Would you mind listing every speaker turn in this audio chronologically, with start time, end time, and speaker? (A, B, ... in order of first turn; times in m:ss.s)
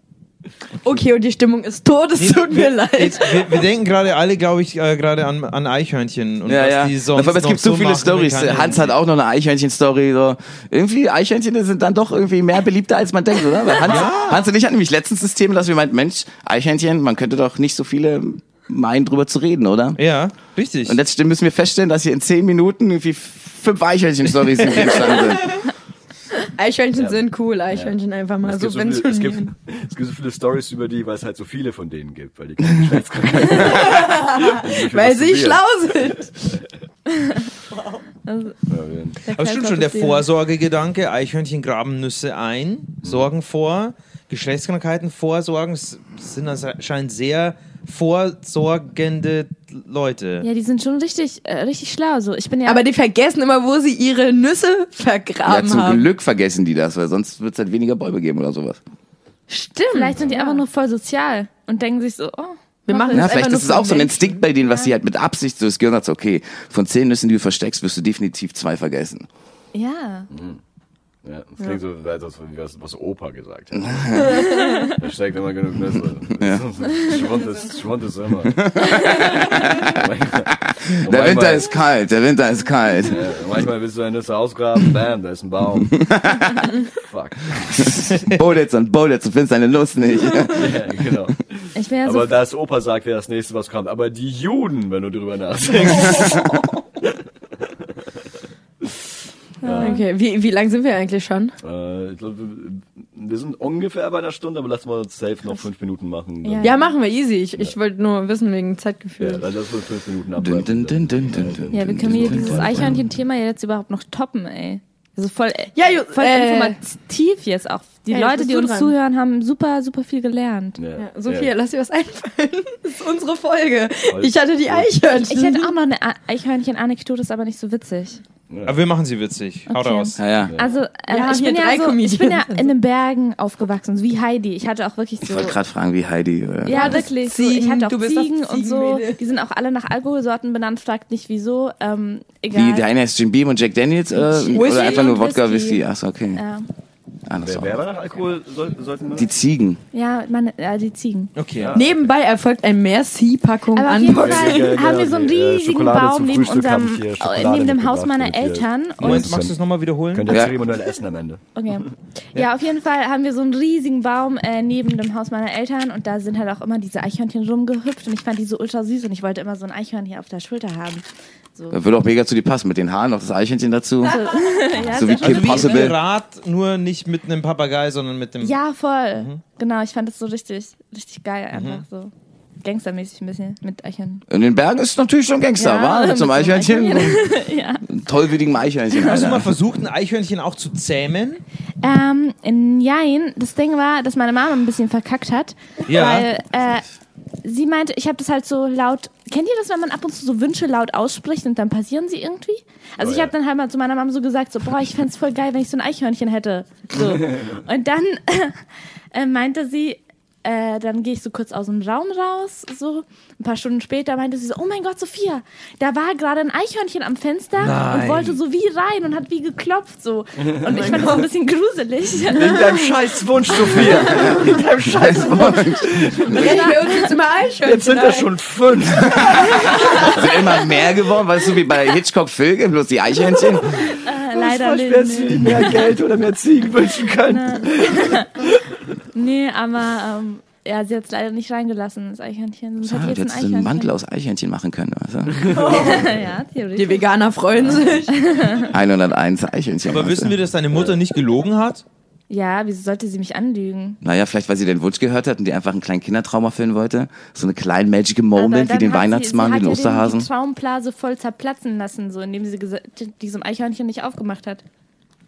0:00.8-0:03.6 A
0:02.1-0:08.9 B
0:06.4-0:20.0 C
0:13.8-0:14.4 B
0:20.0-0:21.0 B
0:20.9-0:25.6 C
0:26.6-0:29.5 A
0:27.0-0:35.6 D
0:33.6-0:36.3 A
0:38.3-0:38.6 E
0:38.7-0:39.2 D
0:39.2-0:40.3 E
0:39.3-0:50.4 B
0:43.0-0:43.3 D
0:50.4-0:52.8 E
0:52.7-0:56.1 A
0:55.4-0:58.8 C
0:59.5-1:00.6 A
0:59.9-1:03.4 E
1:02.9-1:04.4 A
1:03.1-1:09.3 C
1:04.6-1:04.9 E
1:09.7-1:10.3 E
1:10.3-1:10.6 D
1:11.2-1:18.7 D
1:13.8-1:14.4 C
1:14.4-1:14.9 E
1:16.4-1:16.6 C
1:18.5-1:23.2 C
1:19.2-1:21.7 D
1:23.1-1:25.9 D
1:25.9-1:26.7 C
1:27.0-1:28.0 D
1:27.7-1:30.8 C
1:30.5-1:36.5 D
1:31.7-1:32.3 E
1:39.6-1:40.0 E
1:39.6-1:40.0 D
1:39.7-1:41.6 A
1:41.6-1:46.8 D
1:46.4-1:46.9 E
1:46.6-1:49.4 A
1:49.2-1:53.0 D
1:50.4-1:52.9 C
1:51.7-2:00.8 E
1:55.7-1:56.8 A
1:58.1-1:58.9 A
2:00.8-2:01.5 D
2:01.0-2:05.7 A
2:04.1-2:04.9 D
2:05.1-2:08.2 E
2:08.5-2:08.8 D
2:08.7-2:10.2 B
2:09.7-2:15.6 E
2:10.2-2:10.6 C
2:10.4-2:10.8 D
2:11.1-2:12.7 A
2:15.3-2:17.0 C
2:16.6-2:22.9 E
2:16.7-2:19.2 A
2:22.5-2:26.4 C
2:24.5-2:25.3 A
2:24.5-2:25.8 E
2:26.3-2:26.7 E
2:27.3-2:27.8 C
2:27.4-2:29.3 D
2:29.2-2:29.8 C
2:29.9-2:31.3 E
2:31.3-2:31.8 B
2:31.6-2:32.0 D
2:31.7-2:34.7 A
2:33.7-2:39.4 E
2:34.1-2:39.6 D
2:39.0-2:40.4 B
2:40.1-2:41.4 D
2:40.3-2:40.5 C
2:41.6-2:51.0 E
2:51.7-2:54.2 C
2:54.0-2:56.0 E
2:54.1-2:54.5 A
2:54.8-2:56.0 C
2:55.1-2:58.6 B
2:58.4-3:02.1 E
3:01.5-3:01.8 B
3:02.6-3:04.2 E
3:04.3-3:09.5 C
3:05.6-3:07.9 E
3:09.0-3:11.4 B
3:11.8-3:16.8 E
3:15.9-3:16.3 B
3:17.4-3:28.6 E
3:23.0-3:23.3 D
3:27.1-3:27.5 D
3:29.1-3:43.0 E
3:37.6-3:38.4 B
3:40.4-3:41.1 D
3:40.7-3:41.3 A
3:42.3-3:46.9 D
3:43.5-3:44.0 E
3:44.0-3:46.4 C
3:44.1-3:44.6 A
3:46.3-3:48.3 A
3:46.4-3:46.8 E
3:47.6-3:49.8 D
3:49.1-3:54.0 C
3:49.6-3:50.1 E
3:49.6-3:50.2 A
3:53.9-3:55.9 E
3:54.3-3:58.7 D
3:57.2-3:58.3 E
3:59.1-4:03.9 E
4:02.9-4:05.8 C
4:05.6-4:06.1 A
4:05.6-4:07.2 E
4:06.8-4:08.3 A
4:08.1-4:08.7 E
4:08.6-4:10.4 C
4:09.9-4:11.8 B
4:12.3-4:14.0 E
4:14.0-4:20.3 C
4:18.3-4:24.6 E